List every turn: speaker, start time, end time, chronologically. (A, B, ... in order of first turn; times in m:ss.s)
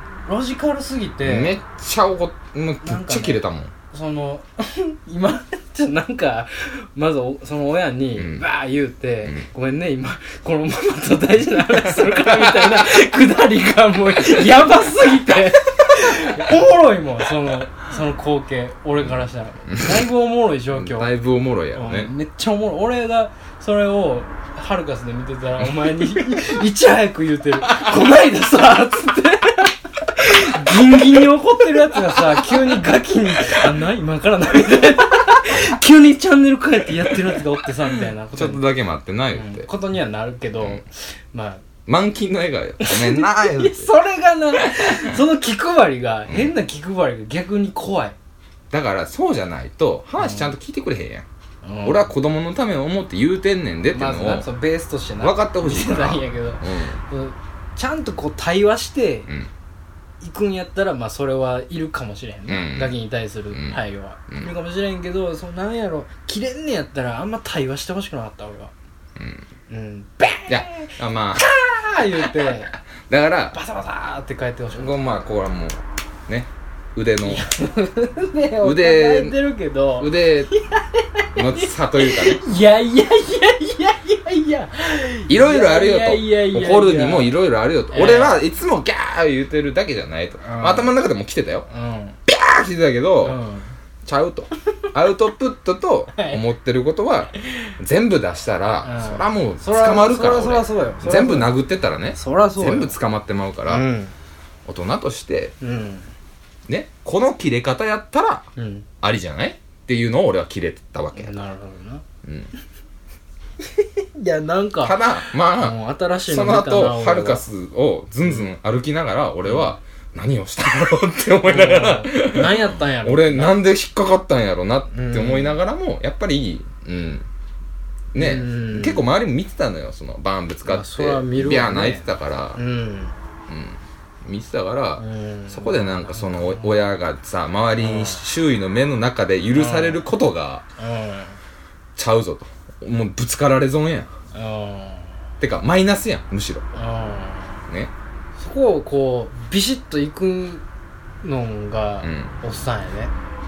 0:00.3-0:01.6 A
0:01.2-0:03.7 B
0:02.8-0:21.1 A
0:08.2-0:08.4 B
0:11.8-0:12.9 B
0:19.7-0:20.0 B
0:20.7-0:22.1 B
0:21.7-0:38.6 A
0:25.6-0:26.4 B
0:37.1-0:37.4 B
0:38.0-0:39.7 B
0:39.3-0:41.6 A
0:40.6-0:40.8 B
0:41.9-0:43.9 B
0:42.8-0:48.2 A
0:44.8-0:45.1 B
0:46.3-0:46.5 B
0:48.7-0:51.3 B
0:50.2-0:50.6 A
0:51.6-0:52.1 A
0:51.8-0:54.5 B
0:53.9-0:59.3 A
0:55.2-0:57.0 B
1:00.2-1:08.7 A
1:02.5-1:03.0 B
1:03.5-1:04.5 B
1:09.2-1:09.5 B
1:09.7-1:12.8 A
1:10.5-1:11.5 B
1:12.2-1:12.6 B
1:13.1-1:13.6 B
1:13.5-1:15.0 A
1:14.7-1:17.5 B
1:17.2-1:27.4 A
1:18.6-1:19.4 B
1:20.0-1:20.5 B
1:21.3-1:22.4 B
1:25.3-1:31.7 B
1:27.9-1:28.4 A
1:30.4-1:30.9 A
1:31.7-1:32.2 A
1:32.3-1:33.4 B
1:33.2-1:33.7 A
1:34.0-1:43.9 B
1:36.1-1:36.4 A
1:38.8-1:41.6 A
1:42.1-1:43.0 A
1:43.7-1:44.1 A
1:44.7-1:45.6 B
1:45.6-1:46.1 A
1:46.7-1:48.5 B
1:48.6-1:48.9 A
1:49.0-1:51.4 B
1:51.2-1:52.0 A
1:52.2-1:52.5 B
1:53.6-1:55.0 A
1:54.8-2:07.3 B
1:55.5-1:57.4 A
1:58.2-1:58.5 A
1:59.5-1:59.7 A
2:01.4-2:03.6 A
2:04.9-2:05.6 A
2:08.1-2:12.6 B
2:08.2-2:09.1 A
2:10.6-2:13.2 A
2:13.5-2:20.6 B
2:15.0-2:16.8 A
2:17.8-2:18.2 A
2:19.5-2:20.0 A
2:20.8-2:21.4 A
2:22.0-2:24.1 B
2:24.3-2:25.1 A
2:25.4-2:26.6 B
2:26.7-2:27.6 A
2:28.4-2:30.6 A
2:31.2-2:33.1 A
2:32.0-2:32.4 B